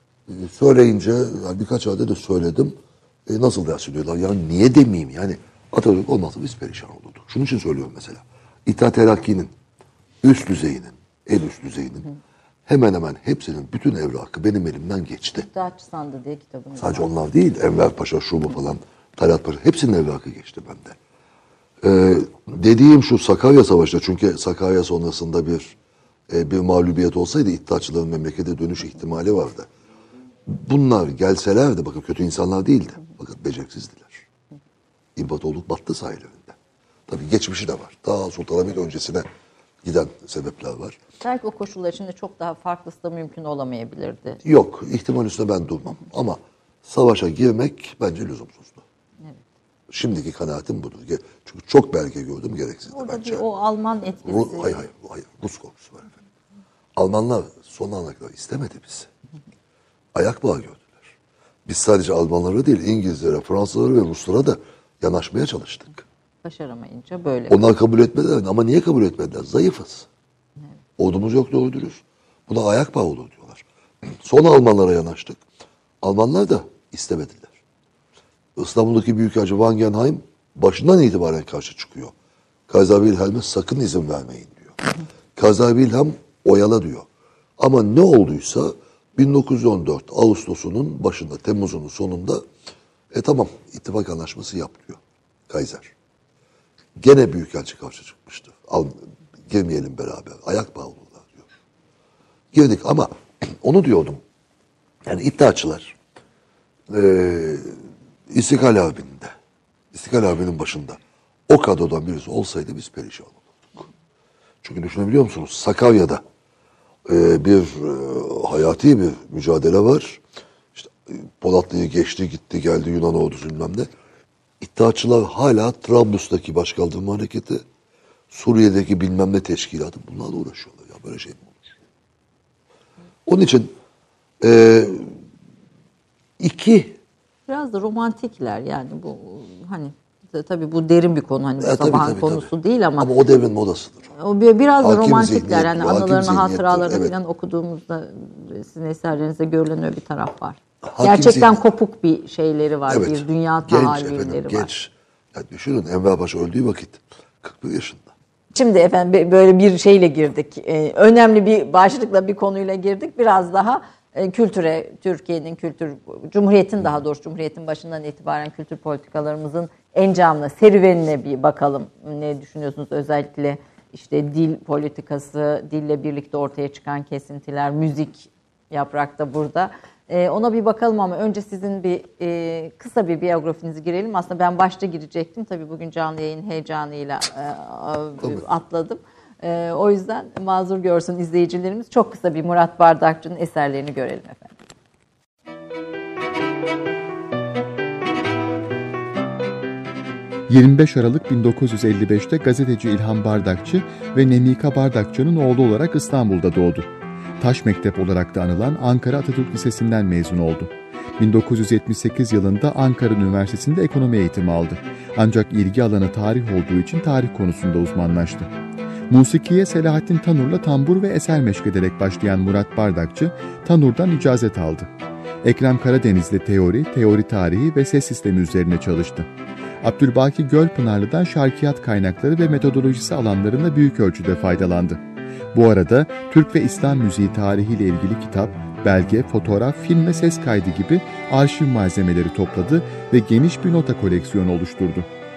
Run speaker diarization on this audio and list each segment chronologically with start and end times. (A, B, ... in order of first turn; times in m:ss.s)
0:00.3-0:09.5 A
0:10.2-0:12.1 A
0:12.6-0:15.5 A
0:15.4-0:17.1 B
0:16.8-0:21.0 A
0:21.8-0:25.8 A
0:26.3-0:29.7 A
0:30.4-0:34.2 A
0:35.2-0:36.6 A
0:37.1-0:39.2 A
0:39.8-0:41.0 A
0:41.2-0:44.4 B
0:44.4-0:48.8 A
0:49.9-0:53.4 A
0:52.9-0:54.8 B
0:54.2-0:56.2 A
0:57.0-0:59.1 A
1:00.1-1:01.1 A
1:01.6-1:06.0 A
1:06.4-1:07.6 B
1:07.5-1:10.1 A
1:11.0-1:15.4 A
1:16.0-1:17.6 A
1:18.6-1:22.1 A
1:22.7-1:27.1 A
1:27.6-1:32.4 A
1:33.1-1:35.9 A
1:37.0-1:41.5 A
1:42.5-1:44.2 A
1:45.0-1:46.0 A
1:46.9-1:47.8 A
1:48.3-1:49.3 A
1:49.9-1:53.9 A
1:54.6-1:56.2 A
1:57.0-2:00.2 A
2:00.7-2:03.9 A
2:04.6-2:07.6 A
2:08.3-2:11.8 A
2:13.2-2:13.7 A
2:14.4-2:15.2 A
2:16.4-2:17.0 A
2:17.5-2:23.1 B
2:21.6-2:24.1 A
2:24.1-2:34.7 B
2:24.8-2:27.1 A
2:30.8-2:31.6 A
2:32.9-2:38.1 A
2:38.5-3:14.6 B
3:20.5-3:26.9 C
3:27.4-3:38.5 C
3:39.1-3:44.9 C
3:45.4-3:49.3 C
3:49.8-3:55.0 C
3:55.5-4:05.1 C